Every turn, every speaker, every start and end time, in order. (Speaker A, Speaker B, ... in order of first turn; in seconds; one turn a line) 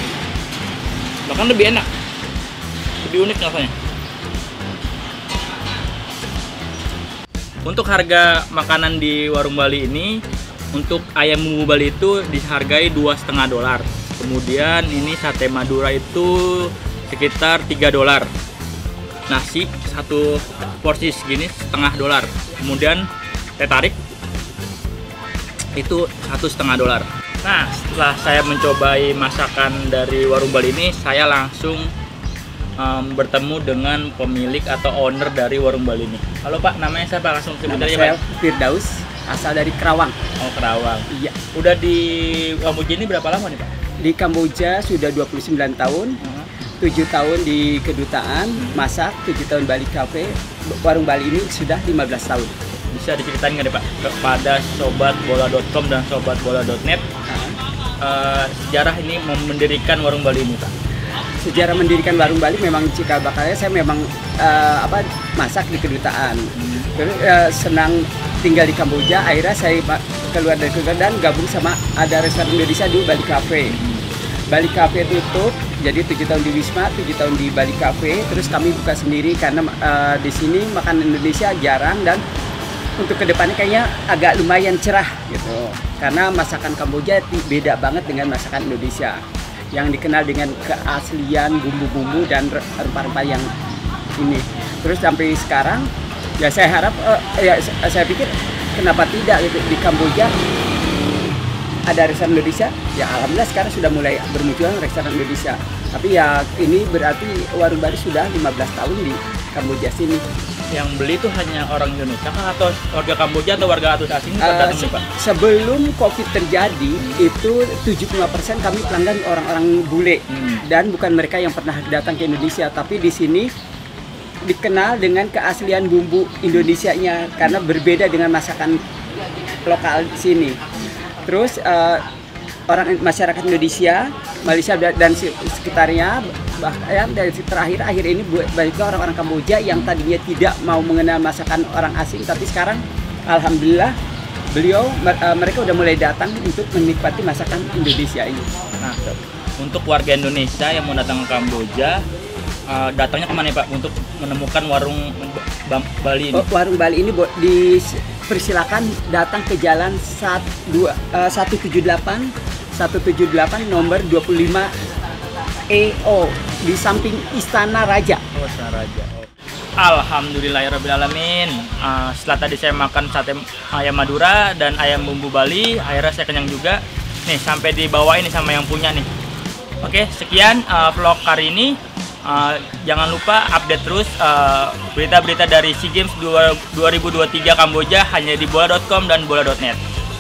Speaker A: 1.3-1.9
Speaker A: 3.0-3.7
Speaker A: 7.6-10.1
Speaker A: 10.7-18.3
Speaker A: 19.3-23.1
Speaker A: 23.6-24.0
Speaker A: 25.8-31.9
Speaker A: 32.8-38.2
Speaker B: 37.7-40.1
Speaker A: 40.4-43.7
Speaker B: 41.1-41.4
Speaker B: 44.0-46.2
Speaker A: 46.2-46.5
Speaker B: 46.8-52.5
Speaker A: 52.9-57.1
Speaker B: 57.3-57.5
Speaker A: 58.0-60.7
Speaker B: 61.4-66.4
Speaker A: 66.5-66.9
Speaker B: 67.0-73.8
Speaker A: 73.7-74.0
Speaker B: 74.5-82.2
Speaker B: 83.0-89.2
Speaker B: 89.8-93.5
Speaker B: 94.2-95.9
Speaker B: 96.4-100.3
Speaker B: 101.9-110.2
Speaker A: 110.7-115.0
Speaker B: 114.4-123.5
Speaker A: 117.0-117.3
Speaker A: 120.3-120.6
Speaker B: 124.5-128.8
Speaker B: 129.7-130.6
Speaker B: 131.3-132.0
Speaker B: 132.7-143.9
Speaker B: 144.6-148.5
Speaker A: 148.8-152.0
Speaker A: 152.7-156.4
Speaker B: 156.3-164.7
Speaker B: 165.7-168.2
Speaker A: 168.3-179.1
Speaker A: 179.8-189.8